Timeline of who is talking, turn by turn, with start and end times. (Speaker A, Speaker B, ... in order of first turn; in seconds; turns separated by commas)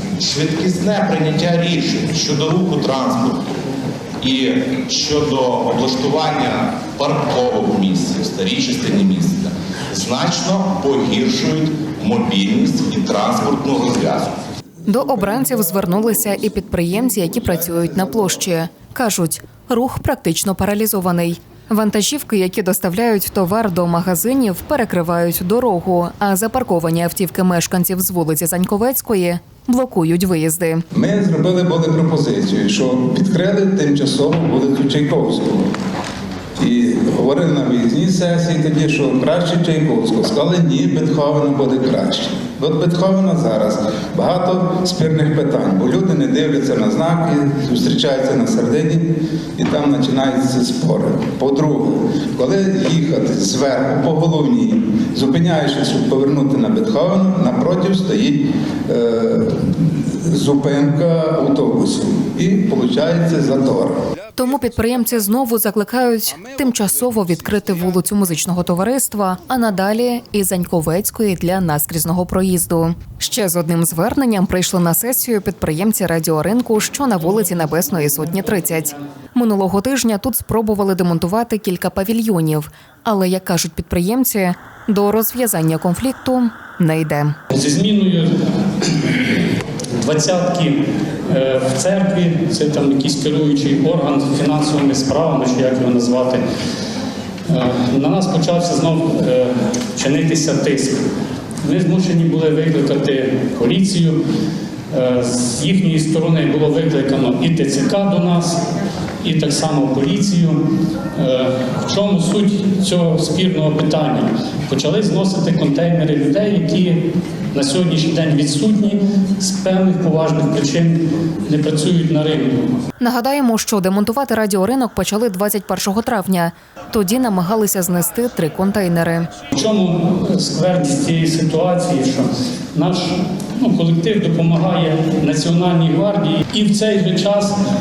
Speaker A: 0.2-3.4, Speaker A: 4.2-14.3, Speaker B: 14.8-30.8, Speaker C: 30.9-35.7, Speaker C: 36.6-64.0, Speaker B: 64.3-87.3, Speaker D: 87.5-88.3, Speaker D: 88.8-89.3, Speaker D: 90.0-96.4, Speaker D: 97.5-101.0, Speaker D: 101.6-104.2, Speaker D: 104.9-108.6, Speaker D: 109.2-110.6, Speaker D: 111.2-122.7, Speaker B: 123.0-129.3, Speaker D: 129.5-137.5